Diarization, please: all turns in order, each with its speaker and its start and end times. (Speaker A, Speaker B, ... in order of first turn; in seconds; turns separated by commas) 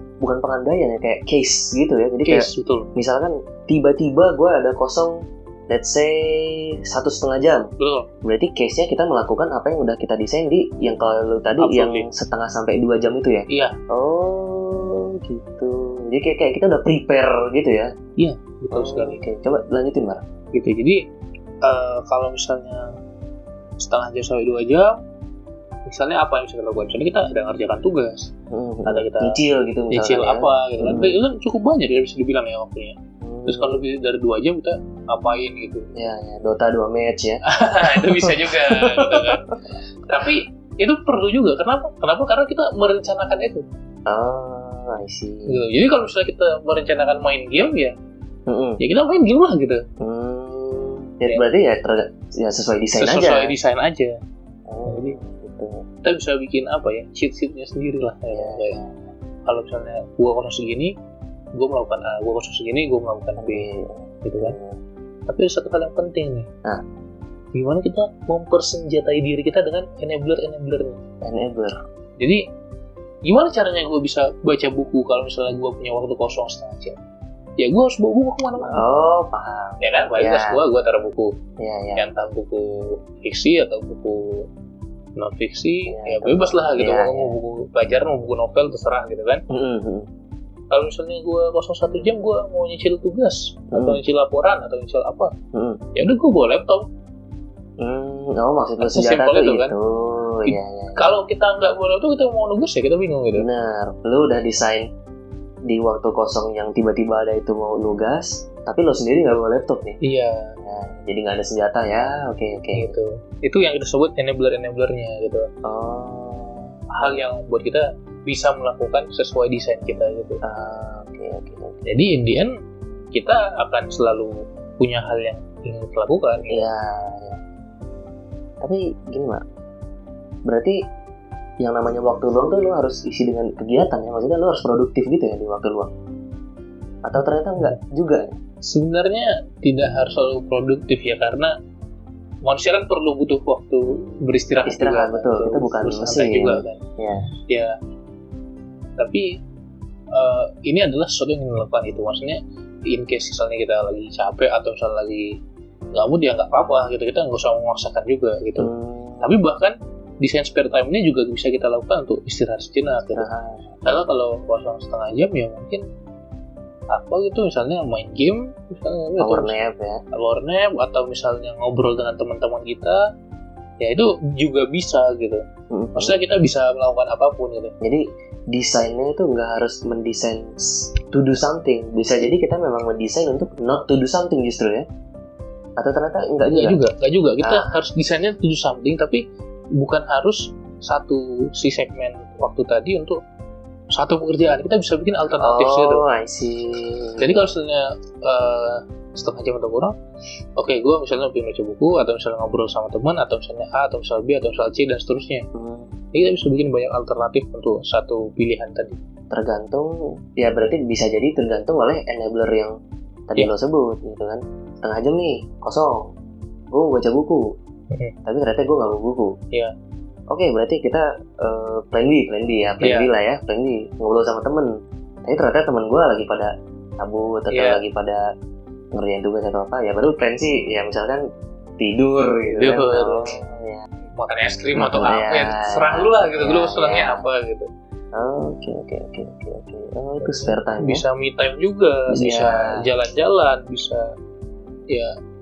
Speaker A: 0.2-7.7, Speaker B: 2.2-2.9, Speaker B: 7.8-8.1, Speaker A: 8.2-17.9, Speaker B: 11.6-12.1, Speaker B: 13.5-13.8, Speaker B: 18.2-19.2, Speaker A: 18.7-20.2, Speaker B: 20.5-21.0, Speaker B: 21.6-23.0, Speaker B: 23.8-25.0, Speaker B: 25.9-28.3, Speaker A: 28.5-31.2, Speaker B: 28.9-29.3, Speaker B: 29.9-33.0, Speaker A: 33.2-33.8, Speaker B: 33.5-35.9, Speaker A: 36.0-39.4, Speaker B: 37.5-39.5, Speaker B: 40.1-43.6, Speaker A: 44.1-45.6, Speaker B: 45.5-48.0, Speaker A: 48.5-48.8, Speaker B: 48.8-49.8, Speaker A: 50.0-53.5, Speaker B: 53.0-54.2, Speaker A: 54.7-55.8, Speaker B: 54.9-55.2, Speaker B: 56.0-58.8, Speaker A: 58.3-59.0, Speaker B: 59.5-60.9, Speaker B: 61.5-63.7, Speaker A: 63.4-64.8, Speaker B: 64.2-64.6, Speaker B: 65.3-66.5, Speaker B: 67.5-71.0, Speaker A: 71.2-71.8, Speaker B: 73.2-77.0, Speaker B: 77.6-78.8, Speaker A: 78.6-80.6, Speaker B: 79.8-81.3, Speaker A: 81.6-82.1, Speaker B: 82.0-84.5, Speaker B: 85.2-89.4, Speaker A: 85.9-87.4, Speaker A: 89.5-90.1, Speaker B: 90.7-95.3, Speaker A: 93.7-94.0, Speaker A: 95.5-95.8, Speaker B: 96.0-96.9, Speaker A: 97.8-101.1, Speaker B: 98.8-99.8, Speaker B: 100.5-103.5, Speaker A: 103.4-104.9, Speaker A: 105.7-110.0, Speaker B: 110.0-110.6, Speaker A: 110.6-112.9, Speaker B: 112.8-115.5, Speaker A: 115.7-117.3, Speaker B: 116.9-120.4, Speaker A: 120.4-121.8, Speaker B: 121.9-122.5, Speaker B: 123.1-126.7, Speaker A: 126.5-127.4, Speaker A: 128.6-129.4, Speaker A: 130.5-130.8, Speaker A: 131.6-135.9, Speaker A: 137.0-138.4, Speaker B: 138.6-141.5, Speaker B: 142.4-146.8, Speaker A: 144.7-147.3, Speaker B: 149.0-149.3, Speaker B: 150.1-155.4, Speaker B: 155.9-158.7, Speaker A: 158.6-159.3, Speaker B: 159.2-163.3, Speaker A: 163.1-163.8, Speaker B: 163.8-165.8, Speaker B: 166.9-169.5, Speaker A: 169.2-170.0, Speaker B: 170.1-173.0, Speaker B: 173.8-175.4, Speaker A: 175.7-176.2, Speaker B: 175.9-177.7, Speaker A: 177.8-184.9, Speaker A: 185.8-186.8, Speaker B: 186.5-189.2, Speaker B: 189.8-193.2, Speaker B: 193.9-196.0, Speaker A: 195.4-197.3, Speaker B: 197.2-199.9, Speaker B: 200.6-205.4, Speaker A: 205.6-205.9, Speaker B: 206.1-209.0, Speaker A: 209.3-212.7, Speaker A: 213.3-216.1, Speaker A: 216.7-217.5, Speaker A: 218.2-219.3, Speaker A: 220.3-224.7, Speaker B: 222.8-223.1, Speaker A: 225.2-228.2, Speaker B: 227.5-227.8, Speaker A: 228.9-231.2, Speaker A: 231.8-233.8, Speaker B: 232.6-233.3, Speaker B: 234.2-237.7, Speaker A: 234.8-237.2, Speaker A: 238.1-241.0, Speaker B: 240.2-244.1, Speaker A: 242.1-242.7